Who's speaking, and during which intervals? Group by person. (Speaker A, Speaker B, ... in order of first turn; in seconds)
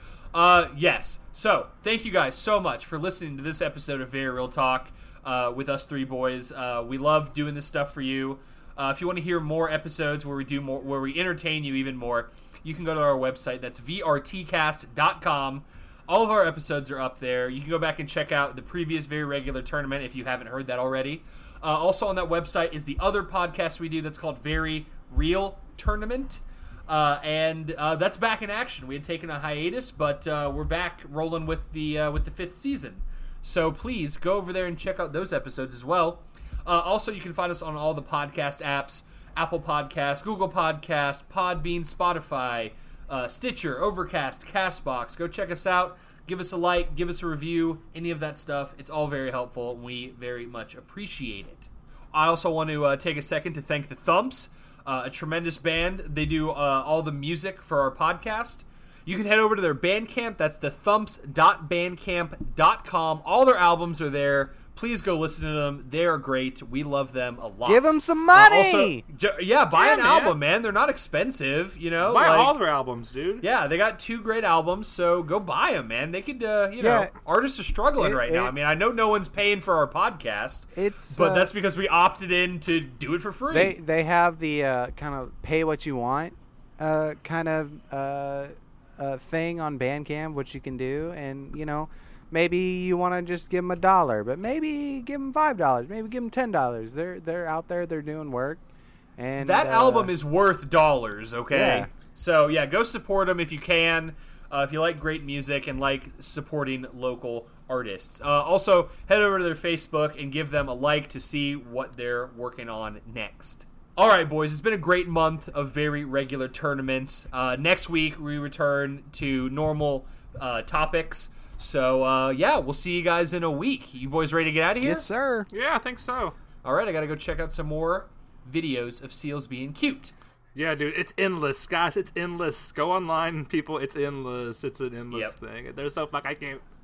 Speaker A: 0.3-72.5, 73.4-83.8, 99.4-125.1, 126.6-130.1
Speaker B: 67.7-69.0, 76.8-77.1, 78.0-78.5, 80.7-81.5, 83.5-98.6, 99.2-100.1, 101.5-101.9, 124.8-125.5
Speaker C: 69.7-70.4, 72.0-73.4, 125.5-126.4, 130.6-136.6